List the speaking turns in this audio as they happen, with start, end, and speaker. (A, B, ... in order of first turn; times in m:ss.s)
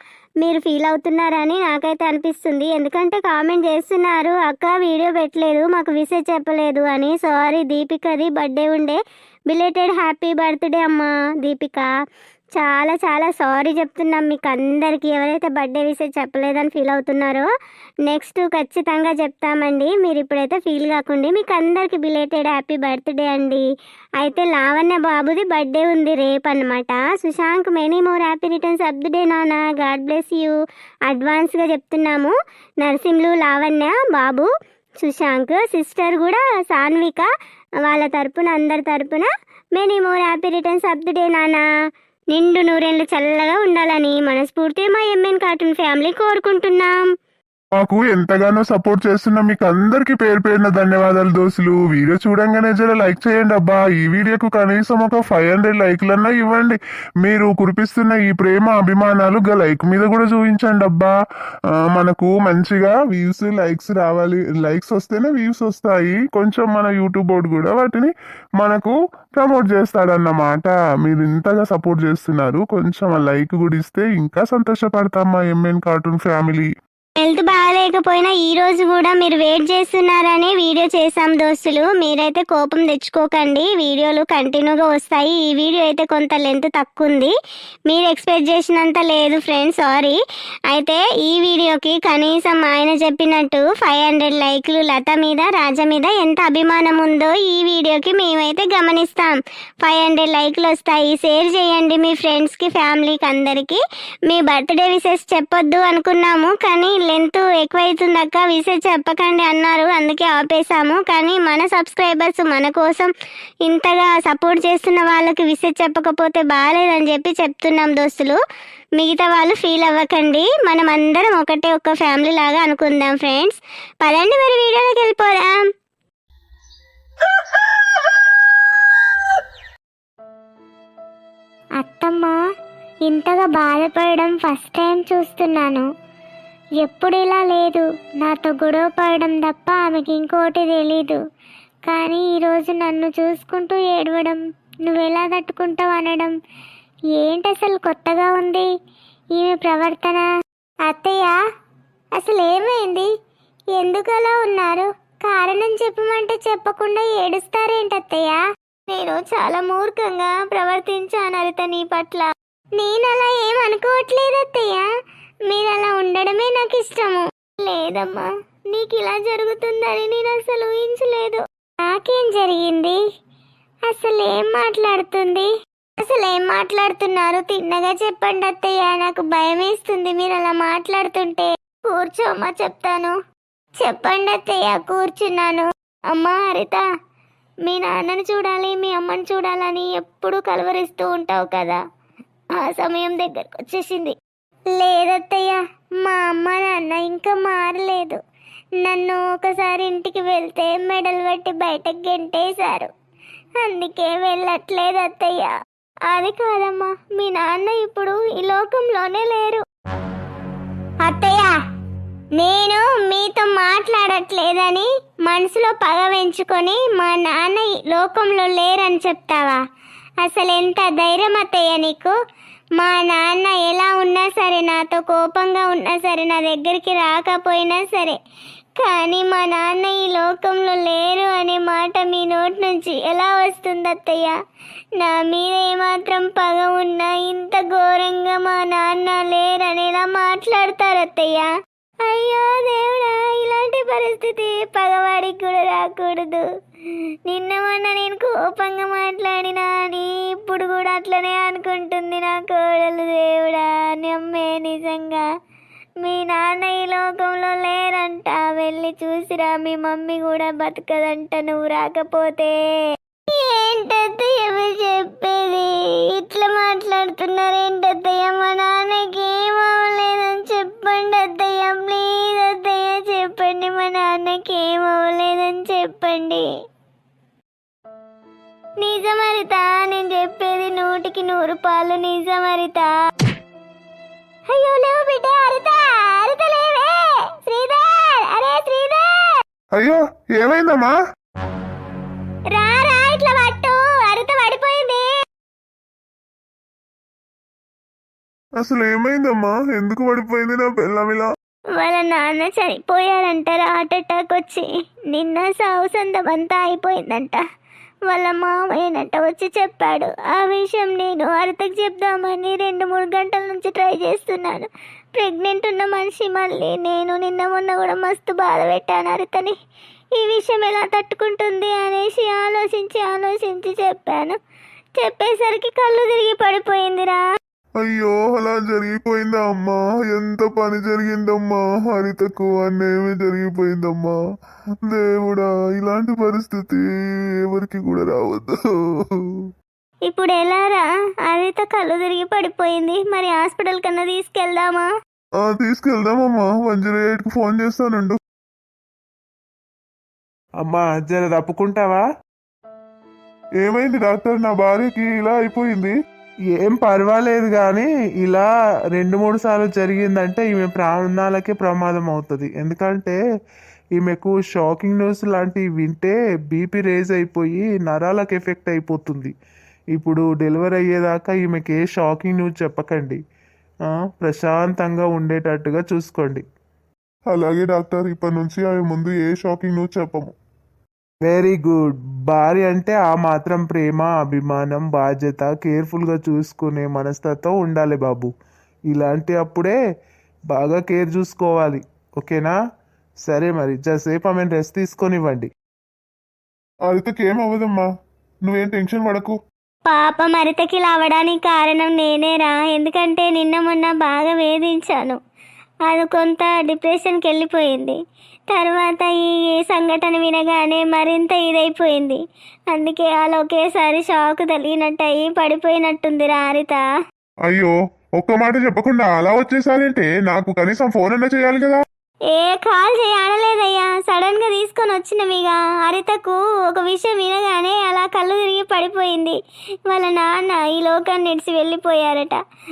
0:00.4-0:11.9 A
0:12.6-0:17.5 A
0:18.1-0:23.6 A
0:24.2-0:30.6 A
0:31.1-0:34.5 A
0:35.0-0:37.3 A
0:37.9-0:41.6 A
0:42.3-0:47.0 A
0:47.8-1:01.1 B
1:02.0-1:16.7 B
1:17.2-1:27.3 A
1:27.9-1:30.2 A
1:30.7-1:53.1 A
1:53.6-1:58.4 A
1:59.0-2:05.6 A
2:11.8-2:12.4 A
2:13.1-2:15.8 A
2:16.8-2:21.2 A
2:21.9-2:26.4 A
2:27.2-2:28.7 A
2:29.4-2:30.3 A
2:30.9-2:31.4 A
2:32.2-2:33.1 A
2:33.7-2:44.9 A
2:45.5-2:53.0 A
2:53.9-2:55.5 A
2:56.0-3:03.2 A
3:03.8-3:06.8 A
3:07.7-3:11.8 A
3:12.6-3:14.2 A
3:14.7-3:18.2 A
3:18.8-3:22.9 A
3:23.6-3:25.5 A
3:26.1-3:29.6 A
3:31.0-3:31.6 A
3:32.4-3:39.6 A
3:40.2-3:42.2 A
3:42.8-3:48.2 A
3:48.8-3:54.3 A
3:55.0-4:01.5 A
4:02.1-4:06.4 A
4:07.3-4:15.2 A
4:16.0-4:22.6 A
4:23.3-4:36.4 A
4:38.8-4:42.9 A
4:44.5-4:49.1 A
4:49.7-4:51.0 B
4:52.5-4:55.1 A
4:58.6-5:01.3 B
5:01.8-5:07.4 A
5:08.1-5:19.5 A
5:20.2-5:24.4 A
5:25.0-5:27.2 A
5:27.8-5:34.2 B
5:34.9-5:36.8 B
5:37.5-5:38.6 B
5:40.1-5:44.9 A
5:45.5-5:48.2 B
5:50.6-5:52.0 C
5:53.6-5:55.9 B
5:56.6-6:03.2 C
6:04.0-6:09.3 C
6:10.0-6:13.2 C
6:13.9-6:16.4 C
6:17.3-6:20.3 B
6:21.3-6:28.3 C
6:28.9-6:29.8 C
6:30.5-6:32.6 C
6:33.2-6:35.5 C
6:36.9-6:37.8 B
6:38.5-6:39.4 B
6:39.9-6:45.2 A
6:45.9-6:48.0 A
6:48.5-6:52.2 A
6:52.7-6:56.8 A
6:57.5-7:01.8 B
7:02.3-7:09.4 A
7:09.9-7:12.4 A